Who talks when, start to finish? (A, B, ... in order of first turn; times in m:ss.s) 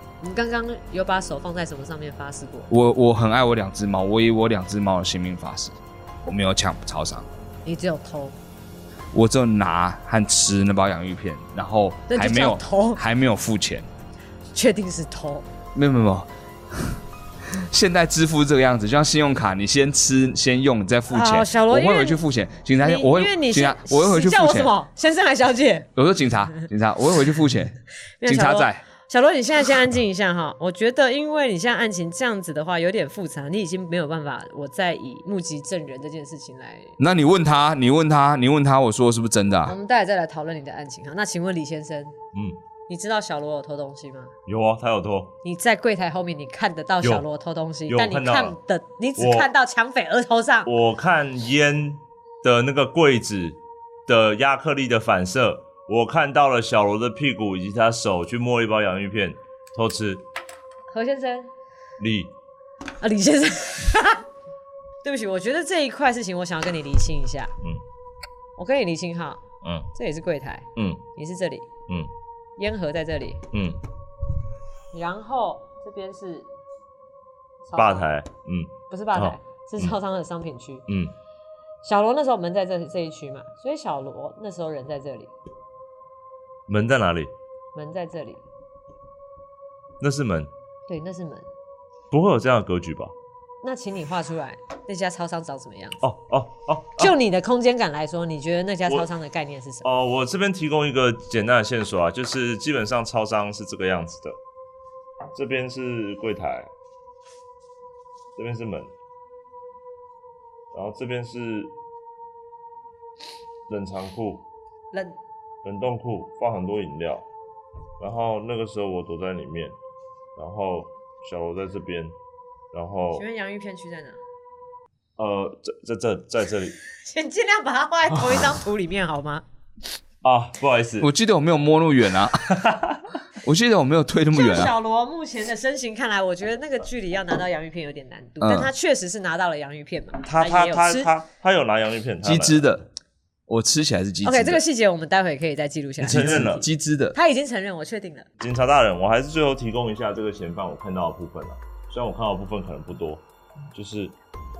0:00.2-0:02.7 A
0:02.7-0:07.3 B
0:07.6-0:08.4 A
0:09.1-0:13.9 B
0:12.1-0:13.0 A
0:14.5-0:15.4 A
0:15.7-0:24.7 B
0:21.1-0:22.2 A
0:22.8-0:25.9 A
0:26.0-0:28.8 B
0:28.2-0:36.9 A
0:37.0-0:39.8 B
0:39.6-0:42.1 A
0:42.3-0:42.6 C
0:42.9-0:44.3 A
0:44.5-0:45.3 C
0:45.4-0:50.7 A
0:47.9-0:48.5 C
0:49.2-0:49.5 C
0:50.6-1:00.2 C
1:00.9-1:01.5 A
1:02.0-1:02.3 C
1:03.0-1:04.2 A
1:05.0-1:07.5 A
1:08.6-1:09.4 A
1:09.6-1:09.9 C
1:09.9-1:11.6 A
1:10.8-1:11.0 C
1:12.6-1:13.4 A
1:13.5-1:13.8 C
1:14.9-1:16.5 A
1:17.6-1:18.1 A
1:17.7-1:19.9 C
1:18.9-1:20.8 A
1:20.9-1:21.1 C
1:21.8-1:25.3 A
1:26.7-1:27.3 C
1:27.7-1:28.4 A
1:30.0-1:30.5 C
1:30.9-1:31.4 A
1:32.1-1:33.1 C
1:33.6-1:36.0 A
1:36.0-1:37.1 C
1:37.0-1:39.9 A
1:39.8-1:44.4 C
1:45.3-1:46.7 C
1:48.4-1:48.9 C
1:50.7-1:51.7 C
1:53.7-1:54.4 C
1:54.9-1:55.2 A
1:55.6-1:57.2 C
1:58.0-1:59.8 C
2:00.4-2:02.1 C
2:02.7-2:03.2 C
2:03.1-2:04.2 A
2:05.2-2:06.7 C
2:06.9-2:09.4 A
2:10.2-2:11.1 C
2:11.0-2:12.5 B
2:12.4-2:13.0 C
2:13.4-2:14.7 B
2:14.3-2:21.1 A
2:18.4-2:18.7 B
2:20.2-2:22.6 C
2:22.2-2:22.8 B
2:23.5-2:24.6 B
2:24.2-2:28.3 A
2:26.0-2:26.6 C
2:26.1-2:27.2 B
2:28.4-2:33.2 C
2:33.7-2:34.1 C